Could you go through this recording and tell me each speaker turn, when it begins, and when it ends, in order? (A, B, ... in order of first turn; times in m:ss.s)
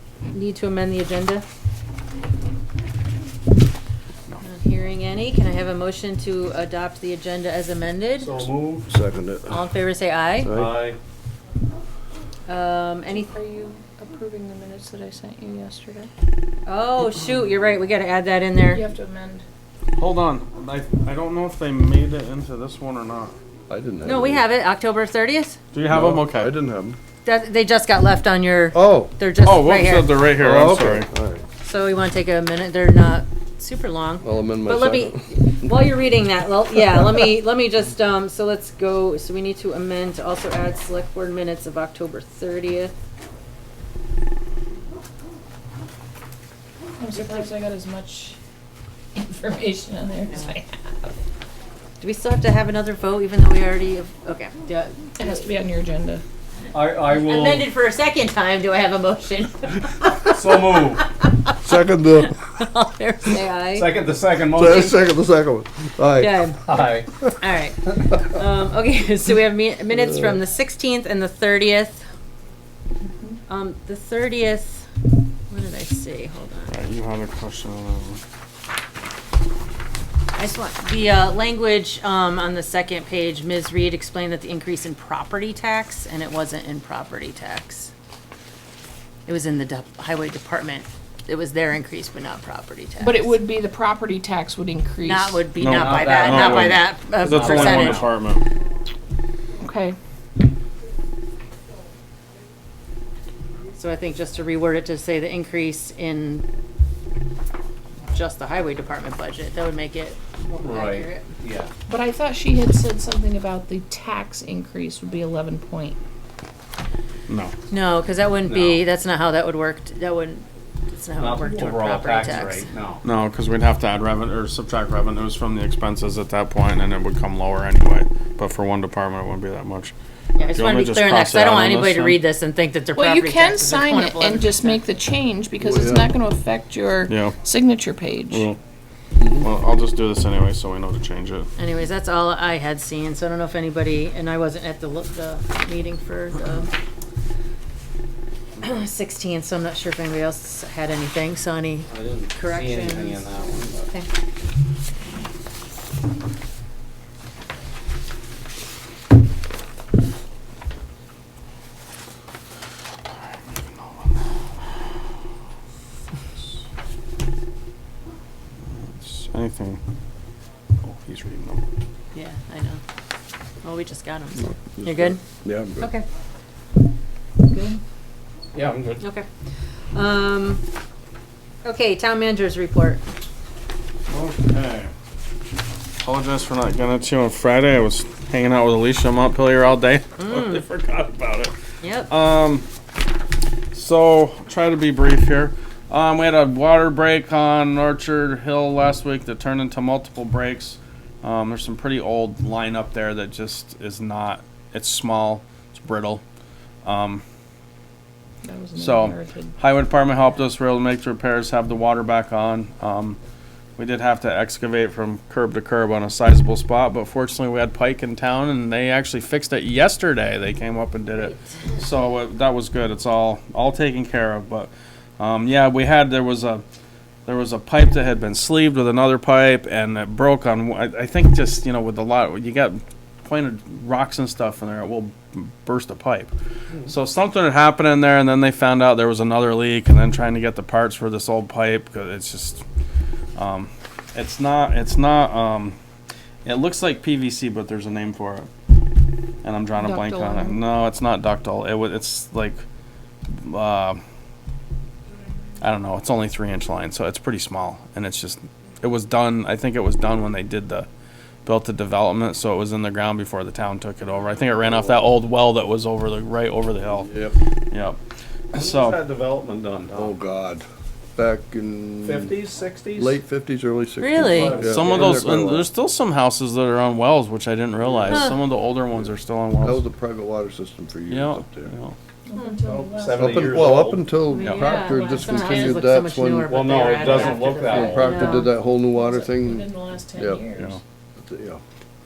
0:00.3-0:01.4 A
0:04.4-0:08.5 A
0:08.2-0:08.9 B
0:08.9-0:09.6 C
0:09.5-0:10.5 A
0:10.4-0:10.8 C
0:10.5-0:11.0 B
0:12.5-0:13.3 A
0:13.1-0:16.1 D
0:16.7-0:18.8 A
0:18.7-0:19.4 D
0:20.0-0:23.4 E
0:23.7-0:24.4 C
0:24.0-0:25.6 A
0:25.7-0:26.5 E
0:25.9-0:27.0 C
0:27.2-0:30.2 A
0:28.7-0:29.1 C
0:29.4-0:31.1 E
0:30.4-0:31.4 C
0:31.6-0:42.9 A
0:34.2-0:35.8 C
0:47.0-0:48.4 D
0:47.1-0:47.4 A
0:49.2-0:51.1 D
0:50.3-0:50.6 A
0:52.0-0:55.3 A
0:55.2-0:56.2 D
0:56.7-0:57.7 B
0:57.1-1:01.6 A
1:00.3-1:01.1 B
1:01.6-1:02.4 C
1:02.3-1:04.0 A
1:03.7-1:05.1 B
1:04.5-1:06.4 C
1:06.2-1:06.8 A
1:06.6-1:07.1 B
1:07.4-1:12.0 A
1:13.0-1:13.4 D
1:13.5-1:14.9 A
1:15.5-1:16.7 A
1:16.7-1:18.2 E
1:20.4-1:27.9 A
1:29.3-1:33.4 A
1:33.0-1:35.5 D
1:35.1-1:38.0 A
1:35.6-1:38.4 E
1:35.7-1:38.0 B
1:39.6-1:40.0 D
1:43.8-1:46.4 A
1:48.1-1:51.4 A
1:50.6-1:51.7 B
1:51.9-1:56.0 D
1:57.3-1:57.5 E
1:57.7-2:02.7 A
1:58.5-1:58.8 B
2:01.2-2:03.0 B
2:03.0-2:09.9 E
2:10.4-2:14.8 A
2:10.6-2:12.2 E
2:12.9-2:18.5 D
2:15.6-2:16.1 C
2:17.1-2:17.4 E
2:18.3-2:18.6 E
2:19.2-2:19.5 C
2:19.4-2:21.5 E
2:21.6-2:26.7 A
2:28.6-2:33.4 A
2:31.9-2:33.9 B
2:43.1-2:44.2 E
2:48.9-2:49.8 E
2:50.8-2:51.6 E
2:52.1-2:52.8 A
2:53.6-2:55.2 A
2:54.4-2:55.9 C
2:55.8-2:56.0 A
2:57.5-2:57.8 A
2:58.5-2:59.0 B
2:59.0-2:59.3 A
2:59.9-3:00.6 A
3:01.6-3:03.0 A
3:04.1-3:04.9 E
3:06.0-3:11.5 E
3:10.2-3:10.6 A
3:11.8-3:12.1 A
3:12.1-3:12.7 E
3:13.7-3:26.2 E
3:26.8-3:27.2 E
3:28.4-3:29.5 D
3:28.8-3:33.2 E
3:33.8-3:46.6 E
3:47.3-3:56.3 E
3:56.9-4:02.6 E
4:03.4-4:05.8 E
4:06.4-4:08.5 E
4:09.4-4:12.6 E
4:09.8-4:10.6 D
4:13.4-4:14.0 E
4:15.6-4:20.9 E
4:21.5-4:27.1 E
4:24.7-4:25.0 C
4:27.0-4:27.4 C
4:27.7-4:28.0 E
4:28.5-4:29.0 E
4:28.6-4:30.1 B
4:30.0-4:30.6 C
4:31.2-4:32.4 C
4:32.0-4:33.2 B
4:33.0-4:35.7 C
4:34.0-4:34.6 A
4:34.2-4:35.3 B
4:34.6-4:39.8 E
4:38.1-4:38.4 A
4:39.6-4:41.7 C
4:41.1-4:42.0 E
4:42.3-4:43.5 D
4:42.6-4:44.0 B
4:43.2-4:50.5 C
4:44.3-4:48.5 A
4:44.4-4:44.7 E
4:46.5-4:48.1 B
4:48.0-4:50.8 D
4:51.2-4:51.6 C